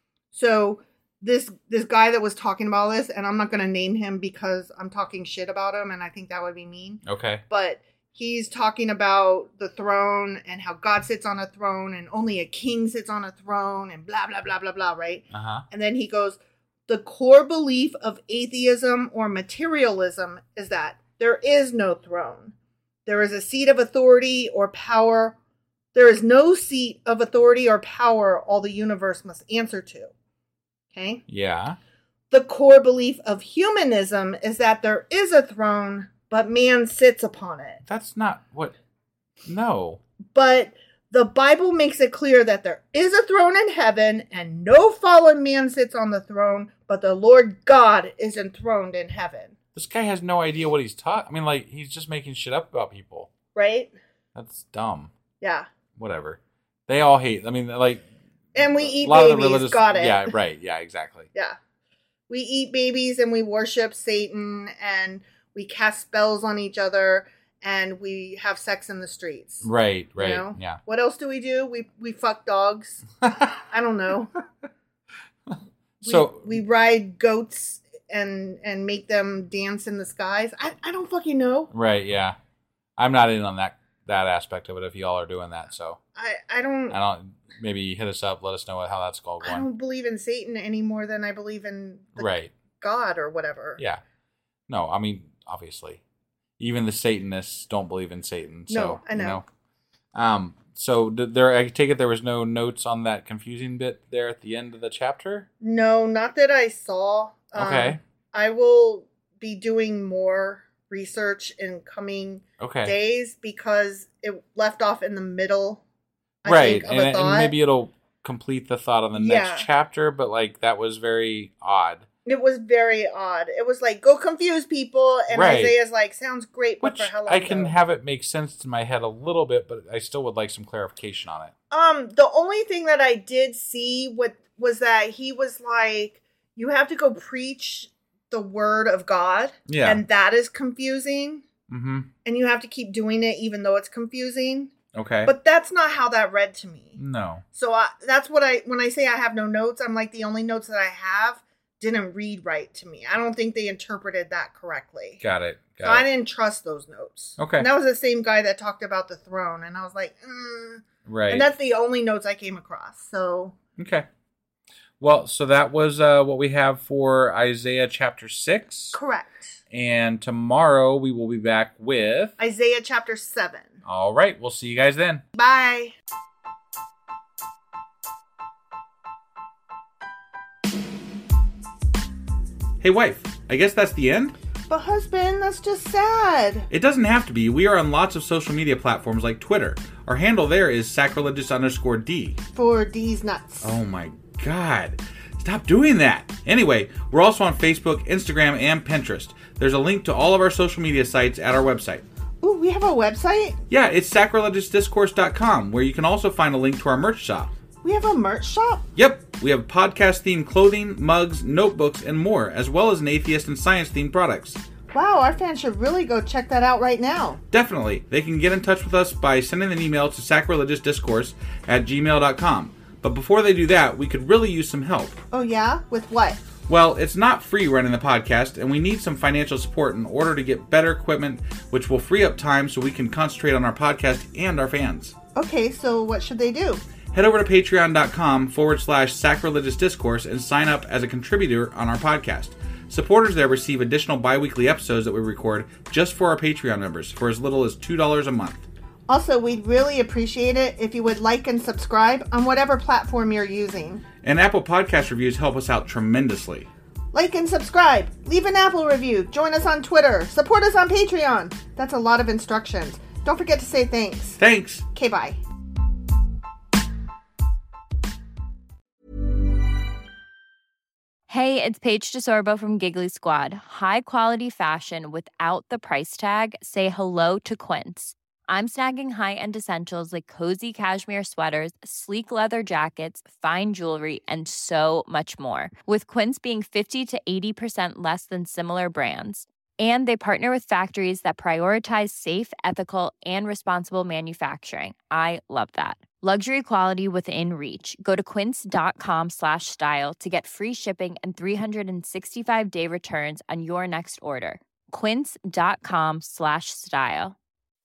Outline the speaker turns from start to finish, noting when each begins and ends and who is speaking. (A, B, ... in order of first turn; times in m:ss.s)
0:00.3-0:22.5 A
0:07.0-0:07.4 B
0:15.3-0:15.6 B
0:23.0-0:25.4 A
0:25.9-0:30.1 A
0:30.9-0:31.2 A
0:31.3-0:31.8 B
0:32.3-0:37.8 A
0:37.8-0:38.8 B
0:39.4-0:40.0 B
0:40.3-0:49.5 A
0:49.7-0:53.3 B
0:53.5-0:53.9 A
0:54.3-0:55.1 B
0:55.4-0:55.7 A
0:56.0-0:58.0 B
0:58.5-1:00.3 A
0:58.8-1:01.3 B
1:02.3-1:14.3 A
1:09.6-1:10.8 B
1:15.5-1:16.6 B
1:16.0-1:21.7 A
1:21.7-1:22.4 B
1:23.0-1:26.0 B
1:26.1-1:27.0 A
1:26.9-1:29.7 B
1:29.4-1:33.8 A
1:32.2-1:32.5 B
1:34.7-1:36.0 B
1:36.6-1:39.4 B
1:38.7-1:39.4 A
1:40.1-1:45.5 B
1:45.6-1:55.8 A
1:47.5-1:48.0 B
1:52.6-1:52.9 B
1:56.4-1:57.5 A
1:56.4-2:02.0 B
1:59.2-1:59.7 A
2:02.2-2:07.7 A
2:05.3-2:05.8 B
2:06.8-2:11.5 B
2:11.7-2:21.4 A
2:19.7-2:20.0 B
2:21.7-2:22.1 B
2:22.2-2:24.7 A
2:24.9-2:25.3 B
2:25.2-2:27.0 A
2:27.0-2:27.4 B
2:27.5-2:35.2 A
2:35.2-2:36.0 B
2:35.8-2:43.5 A
2:37.4-2:37.7 B
2:41.0-2:41.5 B
2:43.8-2:44.0 B
2:45.0-2:49.0 B
2:48.9-2:49.6 A
2:49.7-2:52.4 B
2:52.4-2:53.8 A
2:53.8-2:55.2 B
2:55.3-2:55.9 A
3:02.8-3:04.4 B
3:04.7-3:06.7 A
3:06.7-3:12.4 B
3:12.5-3:13.7 A
3:13.6-3:22.0 B
3:22.4-3:23.6 A
3:23.7-3:27.5 B
3:27.8-3:28.8 A
3:29.0-3:34.6 B
3:34.9-3:37.4 A
3:37.5-3:45.2 B
3:45.3-3:46.4 A
3:46.7-3:55.2 B
3:55.3-3:56.8 A
3:57.1-4:08.7 B
4:09.1-4:14.0 A
4:14.2-4:16.7 B
4:17.1-4:24.4 A
4:24.4-4:24.8 B
4:24.9-4:25.4 A
4:31.3-5:07.4 C